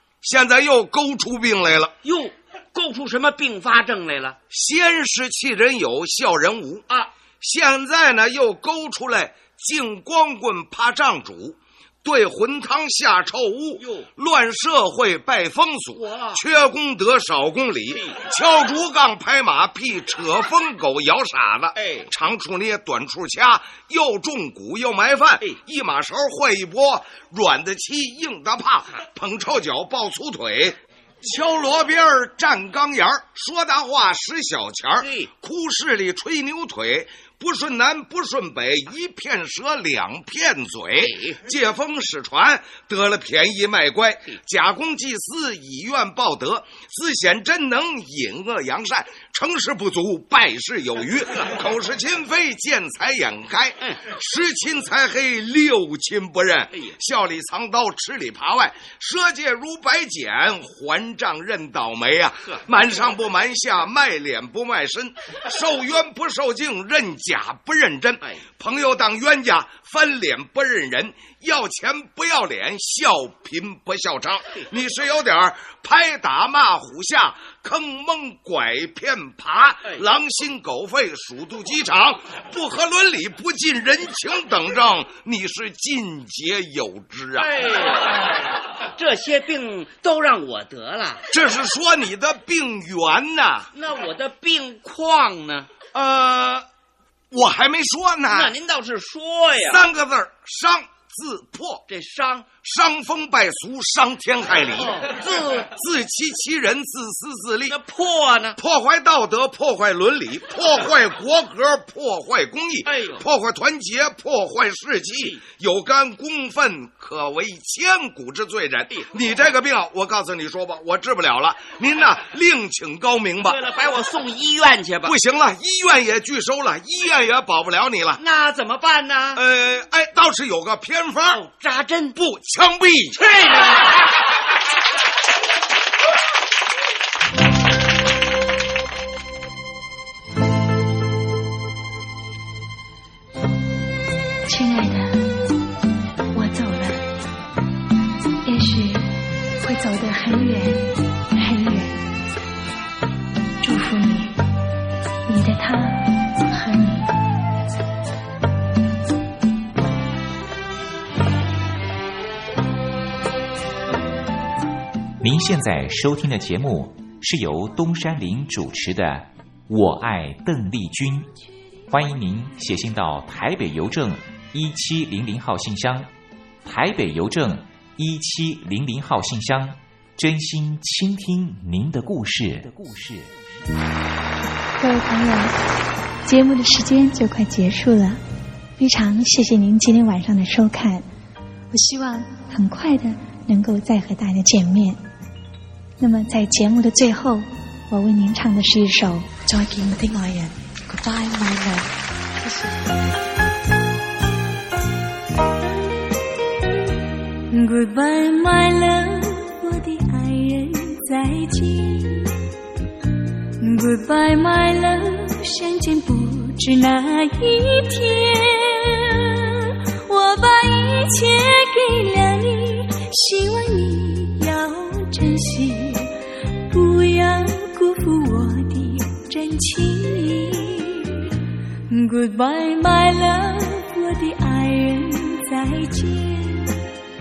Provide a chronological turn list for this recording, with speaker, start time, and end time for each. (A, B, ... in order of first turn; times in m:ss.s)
0:00.2-0:01.9 A
0:02.0-0:04.4 B
0:04.5-0:06.8 A
0:07.4-1:27.5 A
0:13.8-0:14.1 B
0:15.9-0:16.4 B
0:17.9-0:18.2 B
0:21.8-0:22.1 B
0:35.0-0:35.3 B
0:41.0-0:41.4 B
1:27.4-1:28.3 B
1:28.9-1:31.3 B
1:31.3-1:33.7 A
1:33.7-1:35.7 B
1:35.9-1:36.7 A
1:37.3-1:38.5 A
1:38.3-1:39.8 B
1:39.7-1:41.8 A
1:41.9-1:42.5 B
1:42.6-1:45.0 A
1:44.8-1:45.7 B
1:45.7-1:47.8 A
1:47.7-1:48.6 B
1:48.6-2:03.6 A
1:52.8-1:53.2 B
2:03.4-2:05.1 B
2:05.0-2:08.2 A
2:08.2-2:09.4 B
2:09.3-2:11.4 A
2:11.3-2:12.2 B
2:12.1-2:13.2 A
2:13.2-2:14.0 B
2:24.5-2:25.3 C
2:26.3-2:27.0 C
2:28.4-2:32.0 C
2:33.6-2:34.3 C
2:35.3-2:37.1 C
2:45.2-2:51.3 D
2:51.9-2:56.1 D
2:56.6-3:03.3 D
3:04.8-3:05.5 C
3:06.2-3:08.2 C
3:08.8-3:11.0 C
3:11.7-3:15.0 C
3:16.0-3:21.9 C
3:22.4-3:22.7 C
3:27.5-3:32.4 E
3:33.6-3:46.2 E
3:46.7-3:51.3 E
3:51.9-3:56.8 E